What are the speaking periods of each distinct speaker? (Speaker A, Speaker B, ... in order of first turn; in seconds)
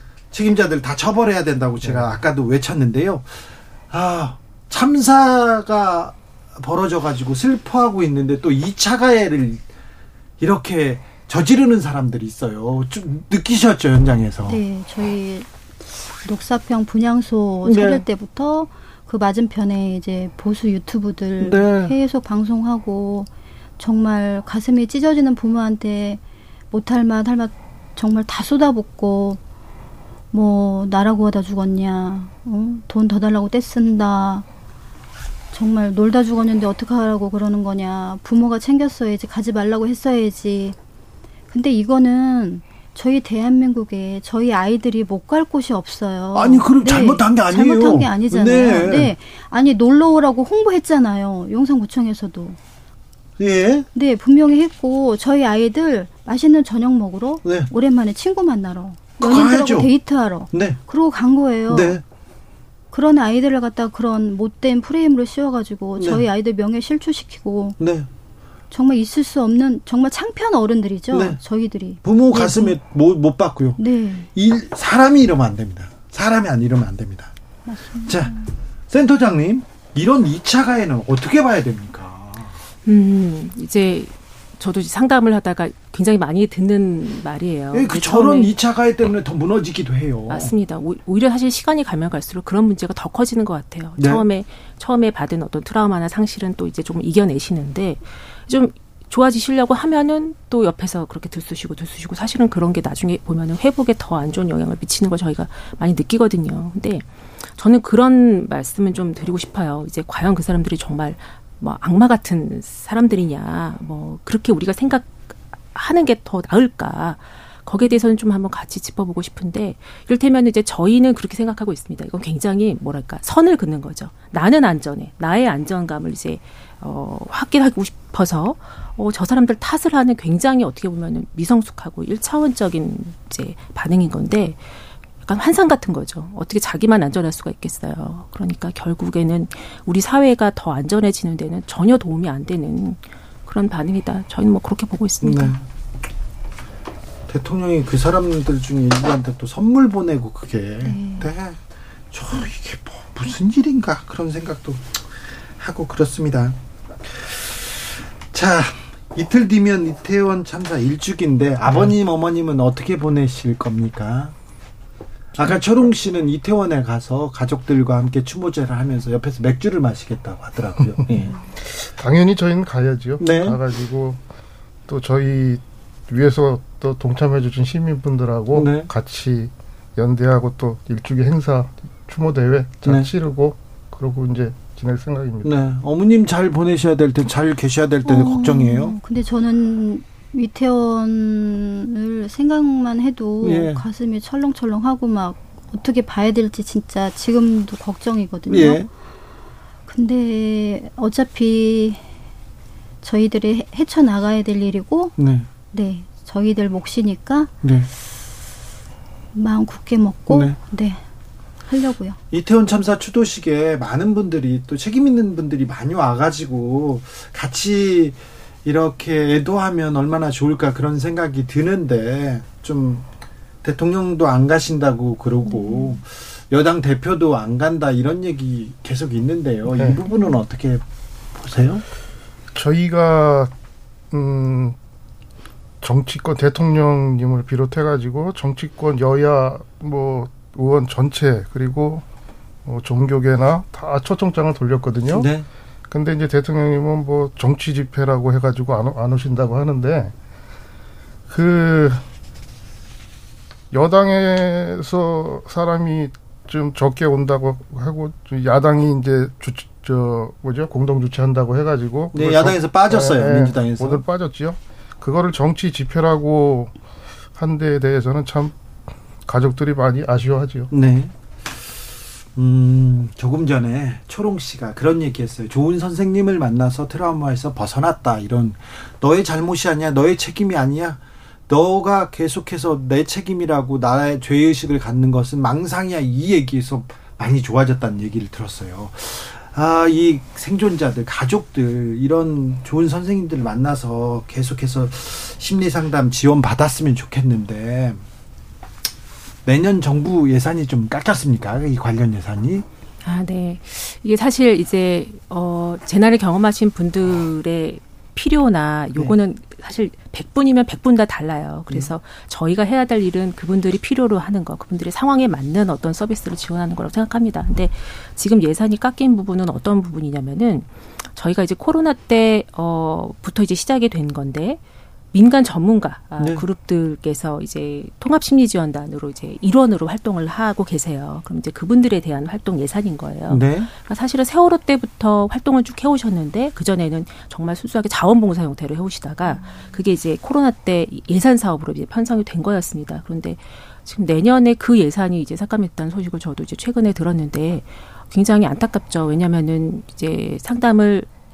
Speaker A: 0.3-9.6, 10.4-14.6, 17.6-18.1, 21.4-21.9, 46.3-49.1, 53.4-53.9, 57.4-57.7, 59.2-59.9, 60.5-60.8, 61.7-62.0, 66.0-66.2, 67.8-68.1, 71.1-71.4, 72.0-73.8, 74.3-77.3, 78.1-78.4, 78.9-82.6, 87.7-90.5, 94.0-94.2, 145.2-145.6, 147.3-151.6, 152.1-155.0, 155.6-164.3, 165.4-171.3, 173.2-173.6, 178.5-178.9, 182.8-183.1, 185.4-189.0, 193.4-193.8, 198.5-198.9, 205.2-205.5, 207.6-207.9, 210.3-210.6, 212.3-223.1, 223.6-231.8, 245.1-245.5, 262.1-264.0, 270.7-271.1, 272.4-298.0, 299.4-302.7, 326.2-326.4, 333.3-333.7
Speaker B: 1.8-2.2, 171.6-174.2, 174.9-185.5, 229.7-230.0, 232.6-233.5, 234.1-234.8, 235.8-242.1, 242.7-245.3, 245.9-250.1, 251.3-252.0, 253.7-266.7, 267.4-268.5, 269.3-270.7
Speaker C: 14.4-15.5, 16.1-29.4, 30.3-34.5, 35.5-40.8, 41.5-52.6, 53.9-62.0, 62.9-67.8, 68.7-72.8, 73.8-74.3, 77.7-78.5, 150.8-151.3, 188.0-198.9, 199.9-202.0, 203.0-205.2, 205.7-207.5, 209.3-211.0, 211.7-212.2, 225.5-226.0
Speaker D: 82.9-88.5, 90.3-134.6, 135.2-145.6, 303.0-324.6, 325.1-351.1